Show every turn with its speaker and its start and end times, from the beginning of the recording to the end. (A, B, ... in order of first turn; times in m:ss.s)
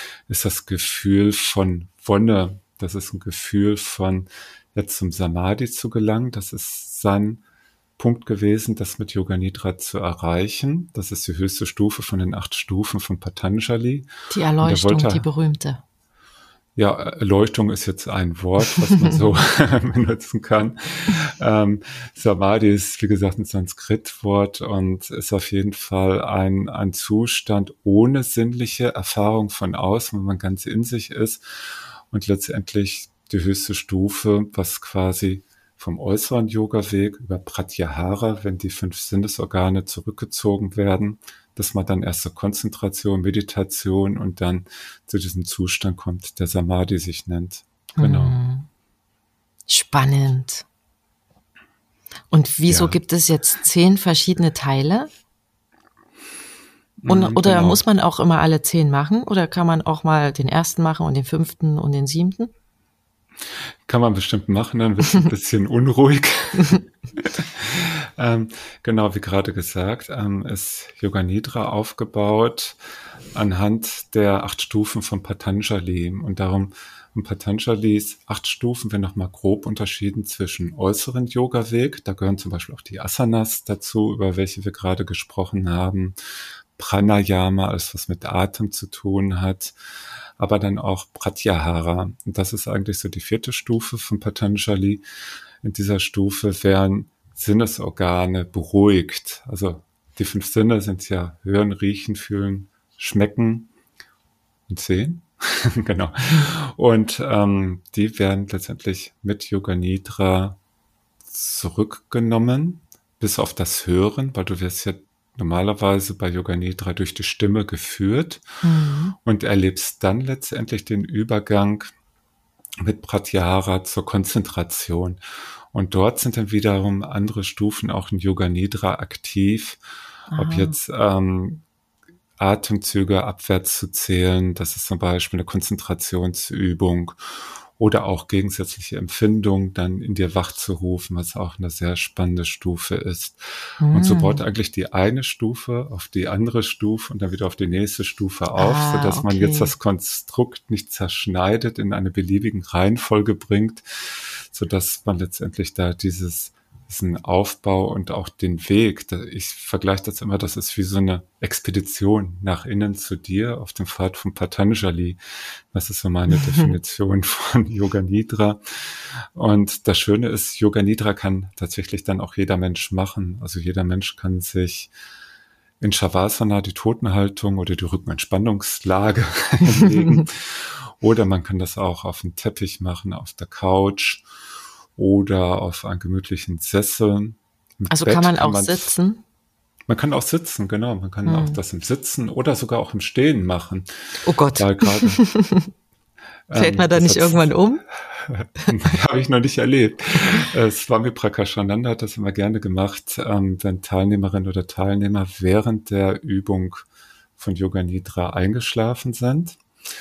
0:00.3-0:07.4 A
0:08.0-0:14.1 A
0:14.3-0:15.8 B
0:14.6-0:15.3 A
0:16.8-0:31.4 A
0:32.1-0:48.4 A
0:48.0-0:48.7 B
0:49.7-0:50.7 B
0:52.3-0:55.1 B
0:52.7-0:53.0 A
0:57.0-0:57.8 A
0:57.1-1:02.5 B
1:03.9-1:12.8 A
1:13.3-1:26.2 A
1:26.8-1:29.8 A
1:30.4-1:35.0 A
1:35.6-1:43.7 A
1:44.7-1:50.6 A
1:51.3-1:58.4 A
1:58.6-1:59.2 B
1:59.2-2:01.9 A
2:02.8-2:05.2 A
2:05.7-2:09.8 A
2:10.3-2:10.8 B
2:10.4-2:11.6 A
2:12.4-2:17.2 A
2:17.8-2:45.2 A
2:23.8-2:24.4 B
2:28.6-2:29.7 B
2:45.7-2:54.9 A
2:46.3-2:46.7 B
2:55.8-3:04.2 A
3:05.0-3:09.0 A
3:07.9-3:09.2 B
3:09.9-3:13.9 A
3:11.3-3:11.6 B
3:14.2-3:15.7 B
3:14.6-3:15.2 A
3:16.5-3:26.8 A
3:16.6-3:17.8 B
3:27.4-3:29.6 A